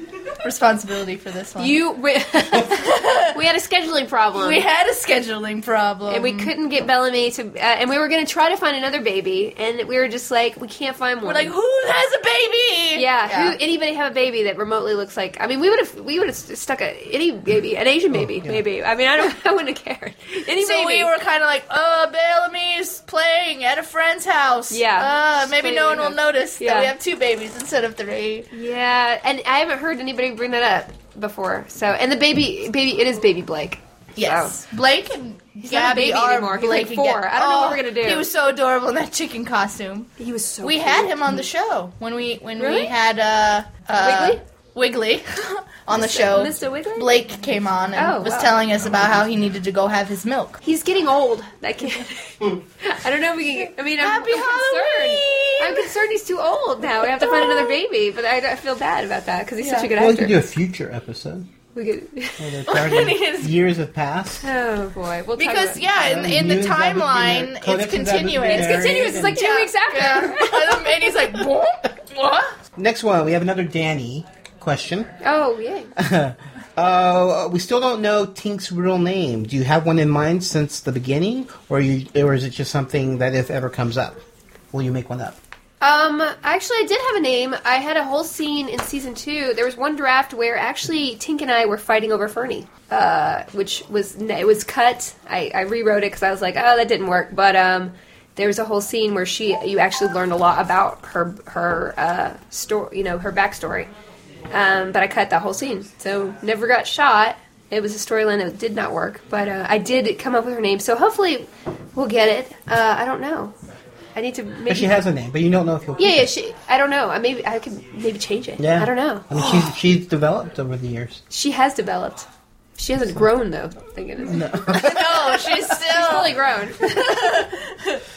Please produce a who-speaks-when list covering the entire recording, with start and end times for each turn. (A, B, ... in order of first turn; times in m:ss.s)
0:00.4-0:01.8 A
0:01.6-0:04.6 B
0:02.6-0:03.4 A
0:04.4-0:06.5 A
0:06.1-0:11.5 B
0:11.2-0:13.6 A
0:12.9-0:21.1 B
0:18.1-0:18.6 C
0:20.6-0:28.5 A
0:24.7-0:26.9 B
0:28.5-0:34.6 B
0:34.2-0:40.1 A
0:35.6-0:38.3 B
0:40.2-0:41.5 B
0:40.6-0:50.6 A
0:42.6-0:42.9 B
0:44.0-0:44.4 B
0:45.9-0:47.2 B
0:48.0-0:48.6 B
0:50.6-1:00.4 B
0:54.0-0:55.9 A
0:57.2-0:57.7 A
0:59.6-0:59.9 A
0:59.9-1:01.5 C
1:01.8-1:02.5 B
1:02.4-1:04.5 C
1:02.7-1:03.5 A
1:04.4-1:05.9 B
1:05.4-1:12.5 A
1:05.8-1:09.4 C
1:08.4-1:10.8 B
1:12.8-1:15.1 C
1:15.2-1:15.9 B
1:16.0-1:24.2 C
1:24.7-1:25.4 C
1:25.8-1:43.9 B
1:44.5-1:53.5 B
1:54.2-1:55.0 B
1:54.7-1:56.3 C
1:56.0-1:59.3 B
1:58.6-2:01.2 C
2:01.3-2:02.3 B
2:02.8-2:04.8 B
2:04.3-2:05.1 C
2:04.7-2:06.3 A
2:05.6-2:06.8 B
2:06.9-2:08.0 A